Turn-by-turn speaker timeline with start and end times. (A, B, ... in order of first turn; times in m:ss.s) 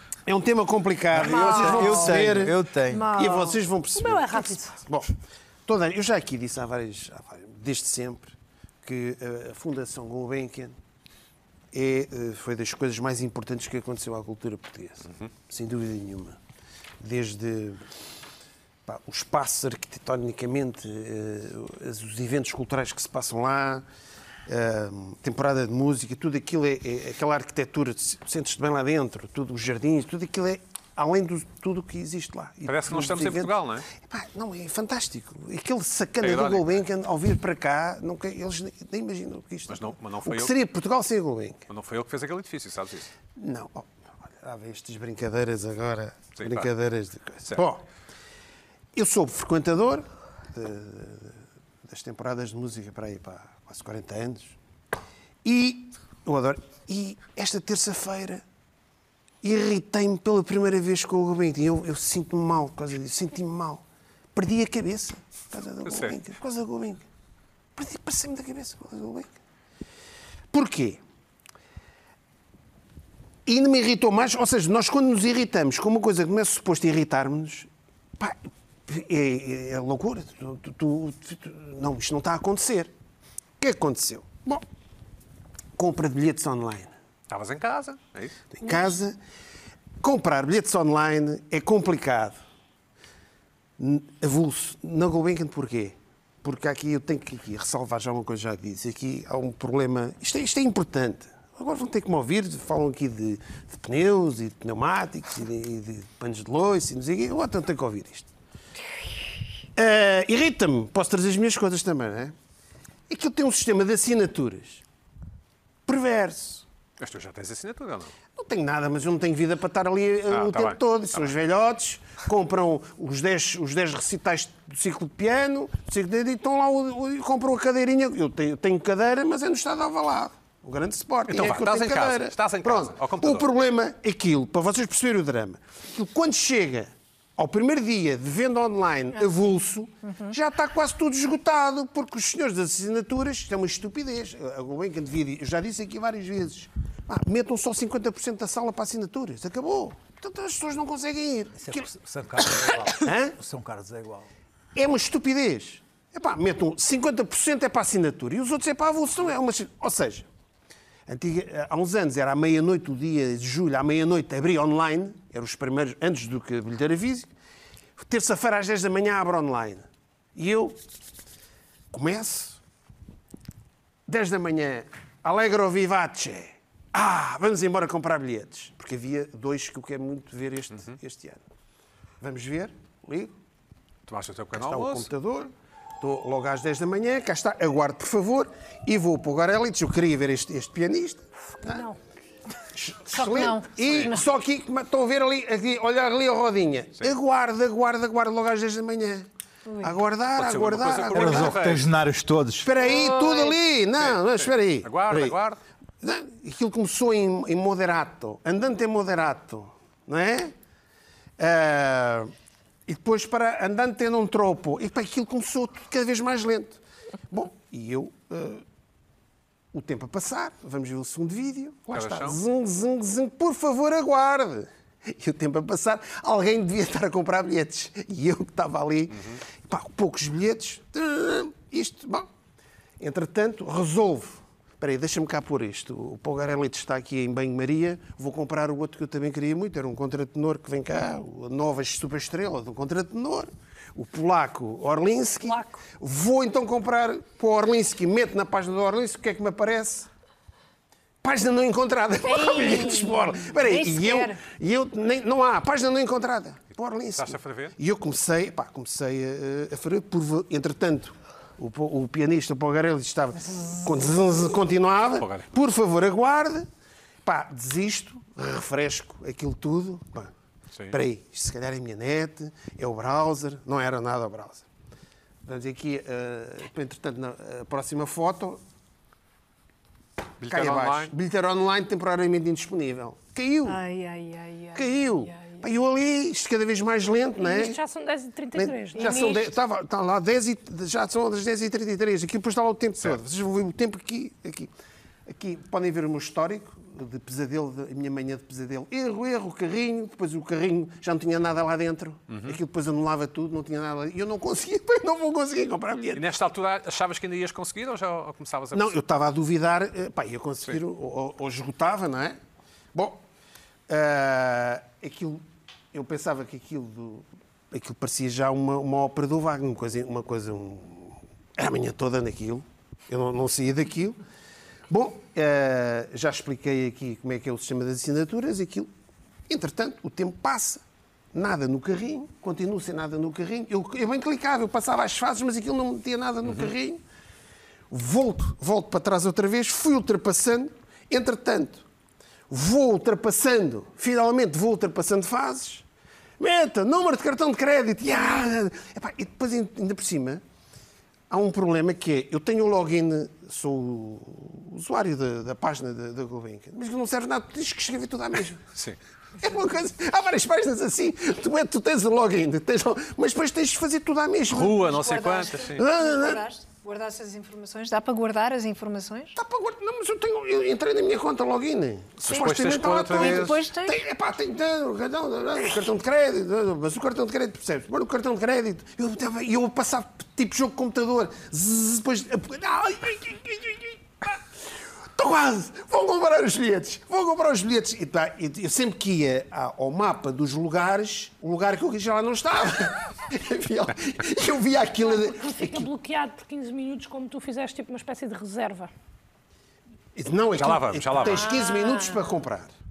0:00.3-0:05.1 A
0:01.1-0:03.1 B
0:01.2-0:02.3 C
0:02.9-0:03.6 C
0:03.9-0:04.8 D
0:05.6-0:10.7 A
0:11.7-0:16.4 A
0:17.0-0:17.8 A
0:18.8-0:23.8 A
0:24.5-0:41.6 A
0:32.6-0:33.9 E
0:36.2-0:36.8 E
0:39.7-0:40.5 E
0:41.7-0:43.1 E
0:43.4-0:47.8 A
0:46.4-0:46.7 E
0:48.9-0:54.6 A
0:55.4-0:58.4 A
0:59.4-1:03.8 A
1:04.3-1:07.0 A
1:05.8-1:06.2 E
1:07.8-1:09.3 A
1:10.5-1:11.0 A
1:13.4-1:17.7 A
1:18.2-1:22.9 A
1:23.6-1:24.6 A
1:25.8-1:26.9 A
1:27.3-1:28.4 E
1:28.5-1:29.2 A
1:30.0-1:32.4 A
1:33.8-1:48.3 A
1:49.8-1:52.3 A
1:53.1-1:54.8 A
1:55.9-1:56.6 A
1:57.0-1:58.1 E
1:58.4-2:31.9 A
2:00.3-2:01.3 E
2:11.3-2:13.5 E
2:31.6-2:34.3 B
2:32.5-2:33.4 A
2:34.8-2:40.3 A
2:41.1-2:47.3 A
2:48.0-2:50.8 A
2:51.9-2:52.6 A
2:54.1-3:01.4 A
3:02.2-3:03.3 A
3:04.1-3:05.1 E
3:04.5-3:11.8 A
3:11.7-3:12.0 D
3:12.7-3:19.3 A
3:13.1-3:14.2 C
3:13.8-3:14.1 E
3:19.7-3:20.0 C
3:19.8-3:21.8 A
3:20.4-3:21.9 E
3:21.1-3:22.8 B
3:22.6-3:25.4 A
3:22.8-3:23.6 C
3:24.0-3:25.6 E
3:26.0-3:30.5 A
3:31.4-3:32.3 A
3:32.9-3:38.6 A
3:39.7-3:52.3 A
3:41.9-3:42.4 E
3:53.0-4:10.1 A
4:05.4-4:05.8 D
4:11.2-4:26.6 A
4:12.2-4:14.4 C
4:17.1-4:17.8 E
4:25.1-4:25.5 E
4:27.2-4:30.3 A
4:30.9-4:34.6 A
4:35.4-4:38.6 A
4:40.4-4:41.1 E
4:40.4-4:43.8 A
4:43.6-4:45.6 C
4:44.7-4:47.8 A
4:47.4-4:49.4 D
4:48.5-4:54.7 A
4:48.9-4:49.5 C
4:55.3-5:06.2 A
5:02.3-5:02.6 E
5:06.1-5:09.0 E
5:08.7-5:12.4 A
5:12.9-5:13.2 A
5:13.9-5:24.2 A
5:24.9-5:28.9 A
5:29.5-5:37.0 A
5:37.9-5:41.8 A
5:42.5-5:45.8 A
5:46.4-5:50.4 A
5:51.3-5:58.6 A
5:59.4-6:04.9 A
6:04.5-6:05.8 E
6:04.8-6:09.4 C
6:05.8-6:06.4 A
6:09.3-6:24.4 A
6:12.3-6:13.6 E
6:12.3-6:14.0 C
6:25.2-6:35.9 A
6:35.0-6:38.9 D
6:40.1-6:42.7 A
6:40.6-6:41.6 E
6:41.2-6:42.2 C